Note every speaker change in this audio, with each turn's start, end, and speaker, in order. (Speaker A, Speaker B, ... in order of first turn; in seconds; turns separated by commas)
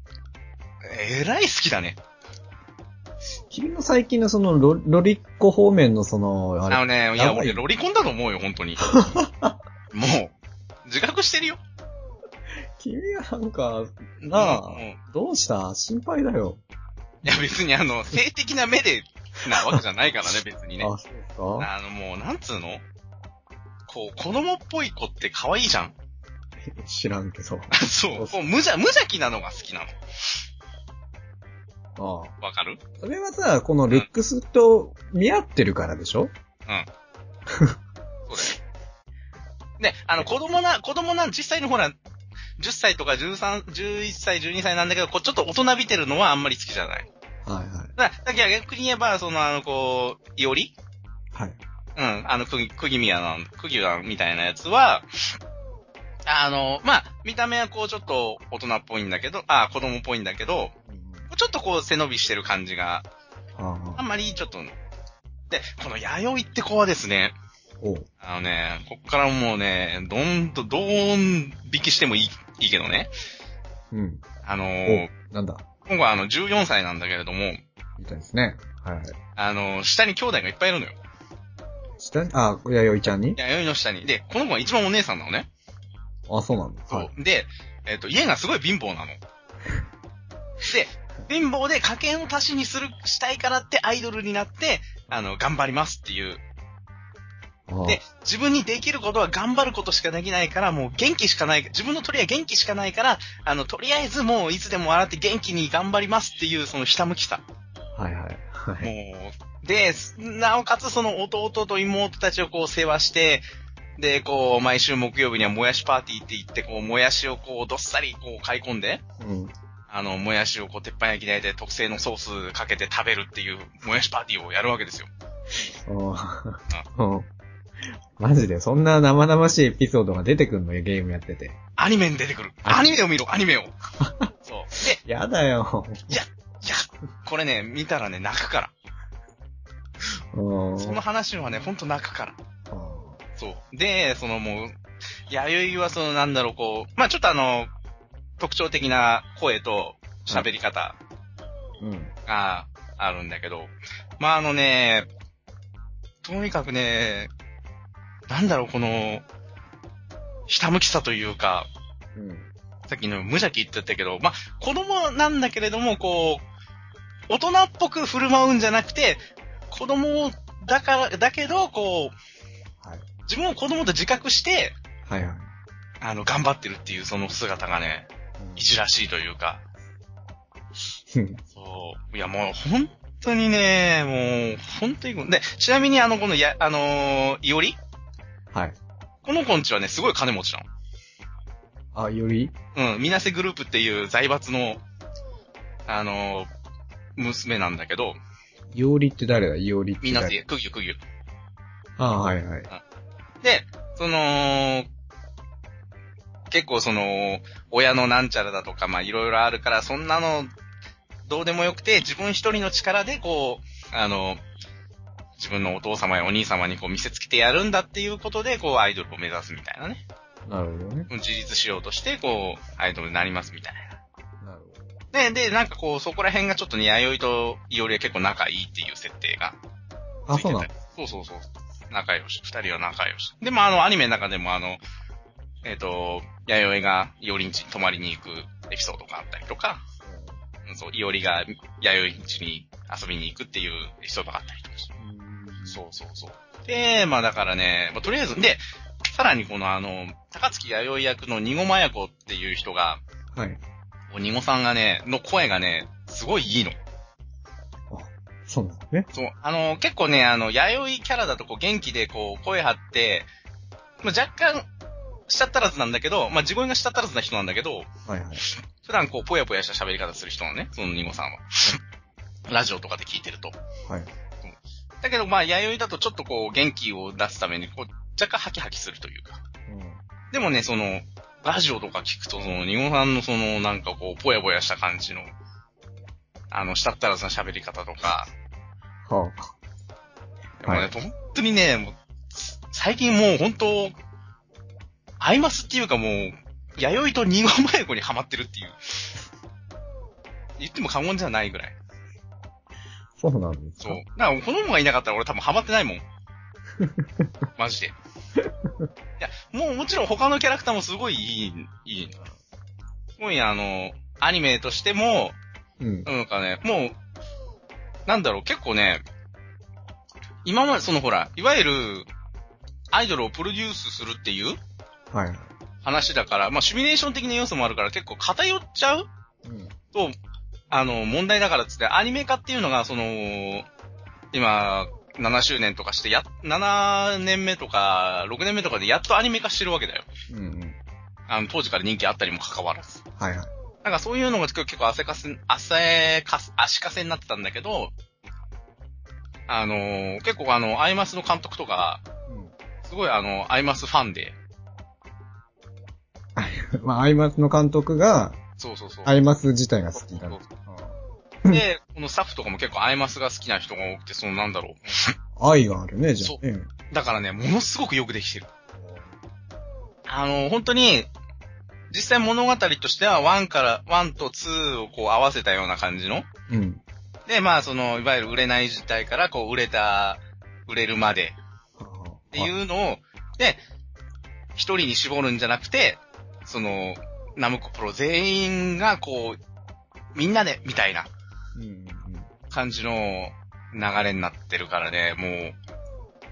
Speaker A: 0.8-2.0, Speaker B: 3.5-7.6, Speaker A: 6.7-9.0, Speaker B: 8.8-9.6, Speaker A: 9.9-10.3, Speaker A: 10.8-11.6, Speaker B: 12.8-16.6, Speaker A: 14.2-15.0, Speaker A: 17.2-20.9, Speaker B: 20.8-21.7, Speaker A: 21.6-22.8, Speaker A: 23.9-25.9, Speaker B: 26.6-28.4, Speaker A: 27.7-30.4, Speaker B: 32.0-32.3, Speaker A: 32.4-32.8, Speaker B: 33.0-36.3, Speaker B: 37.5-37.7, Speaker A: 38.3-38.6, Speaker A: 39.8-42.0, Speaker A: 42.6-47.1, Speaker B: 47.4-47.9, Speaker A: 48.0-50.7, Speaker A: 52.0-55.0, Speaker A: 56.3-60.7, Speaker B: 60.9-61.3, Speaker A: 61.3-63.0, Speaker B: 63.6-64.0, Speaker A: 64.0-64.7, Speaker A: 65.5-67.3, Speaker B: 67.8-68.1, Speaker A: 68.2-73.1, Speaker B: 73.9-74.2, Speaker A: 74.4-75.1, Speaker B: 74.8-75.6, Speaker A: 75.8-77.6, Speaker B: 78.0-79.2, Speaker A: 79.3-81.0, Speaker B: 82.0-83.4, Speaker A: 83.3-85.5, Speaker B: 86.3-87.1, Speaker A: 86.9-89.2, Speaker A: 90.6-96.4, Speaker B: 97.7-98.0, Speaker A: 97.8-107.4, Speaker B: 107.9-108.9, Speaker A: 108.8-113.4, Speaker A: 114.0-119.0, Speaker B: 119.2-119.5, Speaker A: 119.9-125.1, Speaker B: 125.8-127.3, Speaker B: 128.2-131.6, Speaker A: 131.8-133.8, Speaker B: 134.0-134.3, Speaker A: 134.4-135.0, Speaker B: 135.0-136.2, Speaker A: 136.1-138.7, Speaker B: 140.3-141.0, Speaker A: 140.8-142.4, Speaker B: 142.7-143.2, Speaker A: 143.4-144.7, Speaker A: 145.3-147.7, Speaker A: 148.4-151.0, Speaker B: 151.8-152.1, Speaker A: 152.3-155.1, Speaker A: 156.2-157.3, Speaker A: 158.3-159.2, Speaker A: 160.5-161.7, Speaker B: 162.1-162.5, Speaker A: 162.9-166.4, Speaker A: 167.3-172.1, Speaker A: 173.3-174.8, Speaker B: 175.1-175.5, Speaker A: 176.0-179.6, Speaker B: 178.4-178.6, Speaker B: 181.1-181.4, Speaker A: 181.5-187.8, Speaker A: 189.2-190.7, Speaker B: 191.9-192.5, Speaker A: 192.7-194.8, Speaker A: 195.9-196.5, Speaker A: 197.2-198.2, Speaker B: 198.7-200.3, Speaker A: 200.0-201.0, Speaker B: 202.0-202.7, Speaker A: 203.4-204.9, Speaker A: 206.5-210.5, Speaker A: 211.3-214.4, Speaker A: 215.4-220.0, Speaker B: 220.4-221.1, Speaker A: 221.1-224.0, Speaker B: 224.4-224.8, Speaker A: 225.1-229.6, Speaker B: 230.3-230.7, Speaker A: 230.3-234.8, Speaker A: 235.6-239.8, Speaker B: 240.0-240.4, Speaker A: 240.7-244.9, Speaker B: 245.0-245.8, Speaker A: 245.7-253.0, Speaker B: 253.3-253.6, Speaker A: 254.1-256.8, Speaker B: 257.9-259.1, Speaker A: 259.1-263.3, Speaker A: 264.0-264.7, Speaker A: 265.3-267.9, Speaker B: 268.1-268.4, Speaker A: 268.4-271.8, Speaker A: 272.5-273.6, Speaker A: 274.4-279.4, Speaker B: 279.7-280.0, Speaker A: 280.3-285.3, Speaker A: 286.5-288.3, Speaker B: 289.1-289.5, Speaker A: 290.6-293.9, Speaker B: 290.6-290.9, Speaker A: 295.2-299.1, Speaker A: 300.6-301.8, Speaker B: 303.2-304.0, Speaker A: 303.8-306.0, Speaker B: 306.8-307.3, Speaker A: 307.6-307.9, Speaker B: 308.4-308.9, Speaker A: 309.2-312.2, Speaker A: 313.2-315.4, Speaker B: 315.8-316.1, Speaker A: 316.1-316.9, Speaker A: 318.1-319.0, Speaker A: 320.4-322.1, Speaker A: 322.9-324.6, Speaker B: 325.1-325.5, Speaker A: 325.8-329.1, Speaker B: 329.4-329.7, Speaker A: 330.7-333.7, Speaker A: 334.3-340.1, Speaker B: 340.3-340.8, Speaker A: 341.3-343.0, Speaker B: 343.2-343.5, Speaker A: 343.8-347.9, Speaker A: 349.5-352.0, Speaker A: 352.8-354.4, Speaker B: 356.4-358.4, Speaker A: 358.6-359.1, Speaker B: 359.0-361.6, Speaker A: 360.0-360.5, Speaker A: 361.5-365.1, Speaker B: 365.4-366.7, Speaker A: 366.2-368.5, Speaker B: 368.8-369.1, Speaker A: 370.1-371.1, Speaker A: 371.9-376.3, Speaker B: 376.5-376.8, Speaker A: 377.3-381.4, Speaker B: 381.8-382.5, Speaker A: 382.3-383.6, Speaker A: 384.6-389.4, Speaker A: 390.1-391.1, Speaker B: 391.5-392.3, Speaker A: 392.5-395.6